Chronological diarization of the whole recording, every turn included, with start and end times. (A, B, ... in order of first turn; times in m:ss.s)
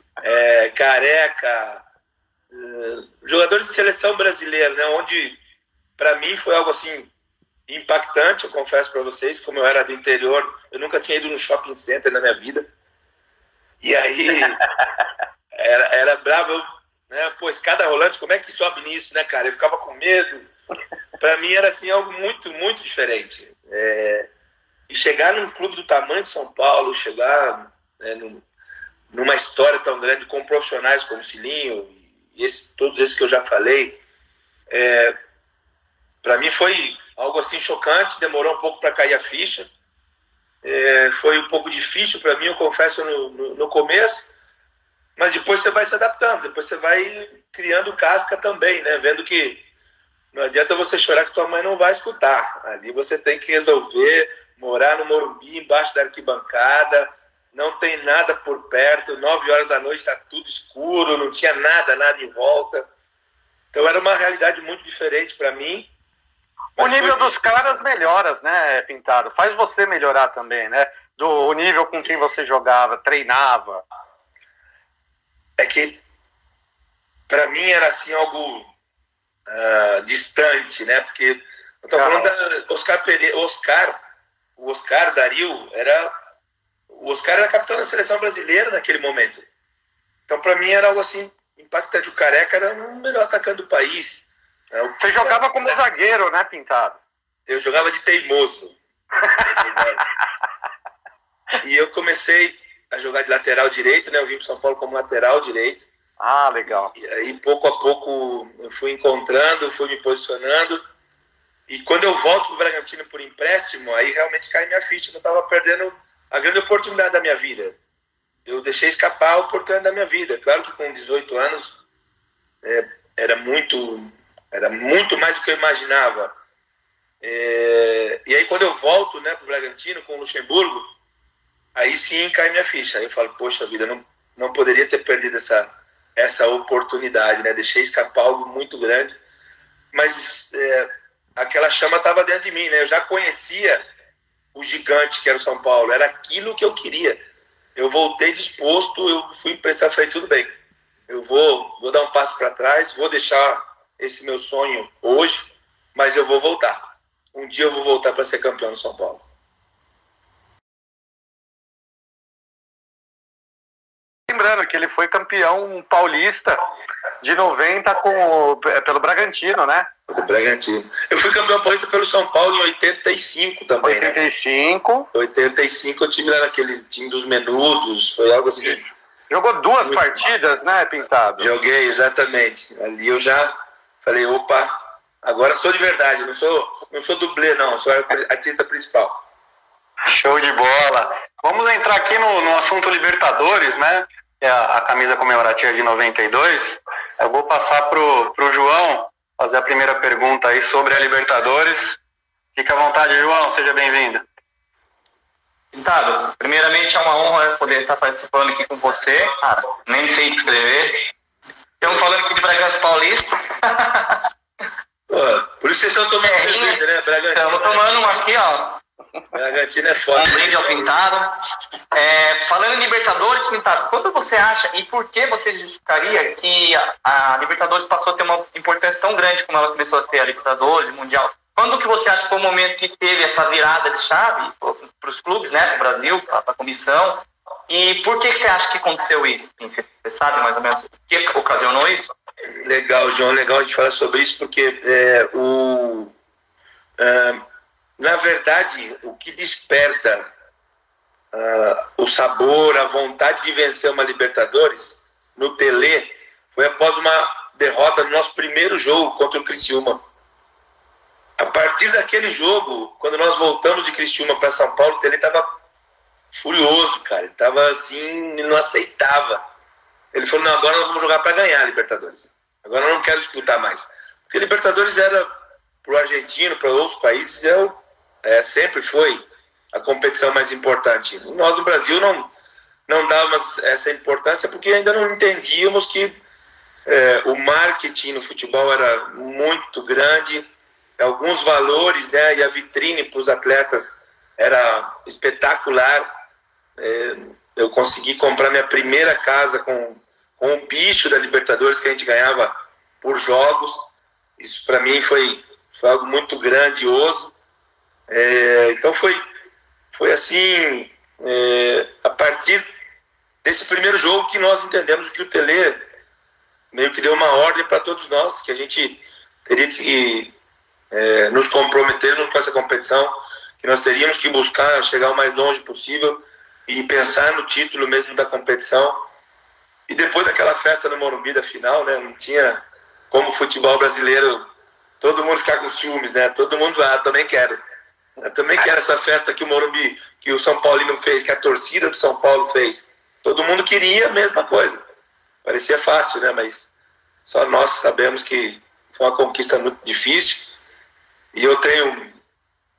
0:00.2-0:01.8 A
0:02.5-0:05.4 A
0:06.0-0:07.1 A
0:07.7-0:12.6 A
0:13.8-0:14.6 A
0:15.5-0:20.5 A
0:21.2-0:24.3 A
0:24.9-0:28.4 A
0:29.1-0:34.0 A
0:34.7-0:35.2 A
0:36.2-0:39.7 A
0:40.6-0:44.2 A
0:45.2-0:49.6 A
0:50.3-1:02.9 A
1:03.7-1:05.9 A
1:06.8-1:07.8 A
1:06.8-1:13.8 B
1:15.6-1:16.0 A
1:17.3-1:18.7 A
1:19.5-1:24.0 A
1:21.9-1:22.3 B
1:24.6-1:26.1 A
1:26.9-1:29.4 A
1:30.3-1:35.4 A
1:35.0-1:37.0 B
1:37.5-1:38.8 A
1:39.4-1:40.0 A
1:41.6-1:45.9 A
1:46.2-1:46.9 B
1:47.0-1:50.8 A
1:51.7-1:57.8 A
1:58.4-2:01.8 A
2:02.6-2:06.3 A
2:07.2-2:10.9 A
2:11.7-2:19.2 A
2:19.9-2:23.8 A
2:24.5-2:27.2 A
2:27.8-2:30.5 A
2:31.1-2:39.2 A
2:44.3-2:46.6 B
2:47.2-2:49.9 B
2:50.1-2:54.2 A
2:53.8-2:55.1 B
2:55.1-2:58.8 A
2:59.3-3:01.5 B
2:59.8-3:00.1 A
3:01.4-3:09.2 A
3:10.0-3:22.0 C
3:22.5-3:24.2 C
3:25.7-3:31.0 D
3:31.8-3:34.2 D
3:35.1-3:38.2 A
3:36.2-3:36.8 D
3:37.3-3:38.8 D
3:39.3-3:40.9 A
3:40.1-3:41.4 D
3:41.9-4:02.1 D
4:02.6-4:06.1 A
4:07.0-4:07.4 A
4:08.0-4:10.3 A
4:11.3-4:20.0 A
4:21.4-4:25.5 A
4:26.3-4:29.4 A
4:30.1-4:35.3 A
4:35.8-4:42.3 A
4:42.9-4:46.2 A
4:46.8-4:56.1 A
4:56.8-5:03.8 A
5:04.4-5:07.3 A
5:08.1-5:09.2 A
5:09.9-5:12.7 A
5:13.4-5:15.8 A
5:16.7-5:20.3 A
5:20.9-5:29.1 A
5:29.9-5:34.5 A
5:35.0-5:37.6 A
5:38.2-5:44.8 A
5:45.4-5:46.7 A
5:47.2-5:50.5 A
5:51.3-5:52.1 A